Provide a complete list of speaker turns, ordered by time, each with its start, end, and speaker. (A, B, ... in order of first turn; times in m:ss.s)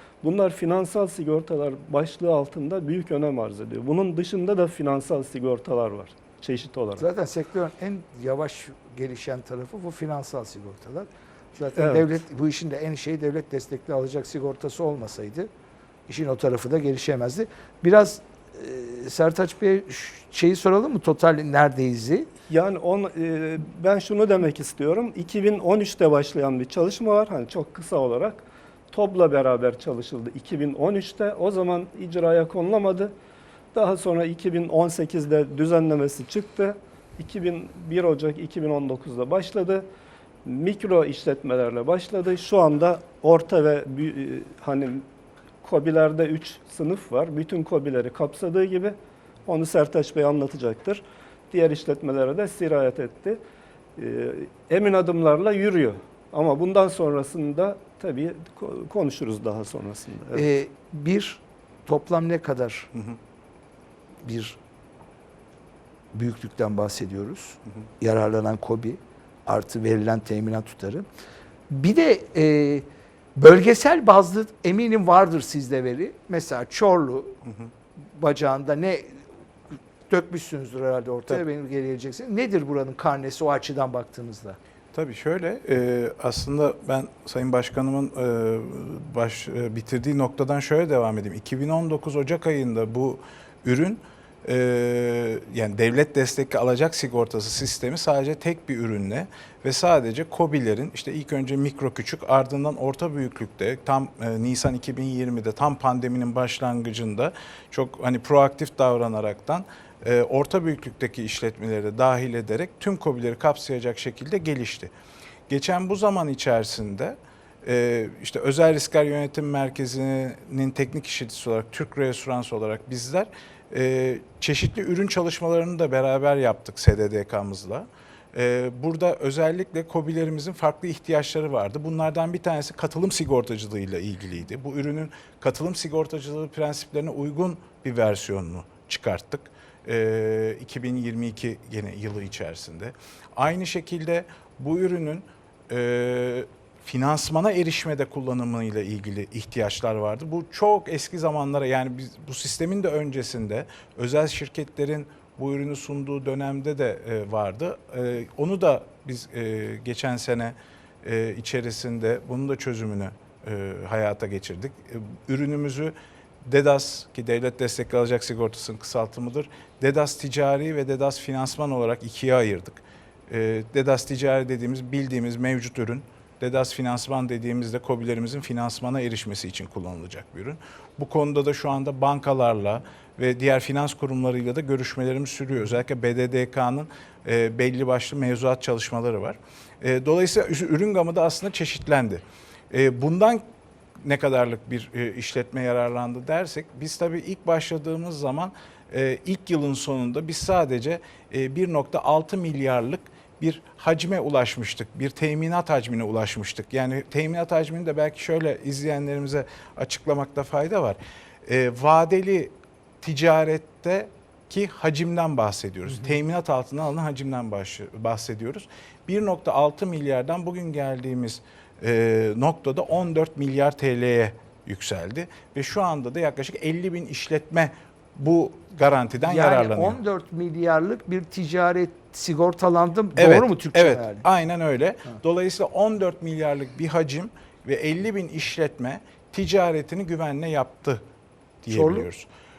0:00.2-0:07.0 A
0:07.0-0:15.5 B
0:11.8-0:12.0 A
0:16.1-0:22.3 B
0:22.5-0:33.1 A
0:33.7-0:39.8 A
0:40.4-0:45.1 A
0:45.6-0:53.4 A
0:54.0-1:00.4 A
1:00.3-1:02.9 B
1:04.2-1:04.6 B
1:06.1-1:11.1 B
1:11.7-1:12.8 B
1:13.4-1:17.4 B
1:18.1-1:19.2 B
1:20.1-1:24.6 B
1:24.9-1:54.9 C
1:55.5-3:13.4 C
3:14.0-3:50.0 C
3:49.2-3:54.2 B
3:53.2-4:01.0 C
4:01.6-4:02.3 C
4:01.7-4:02.1 B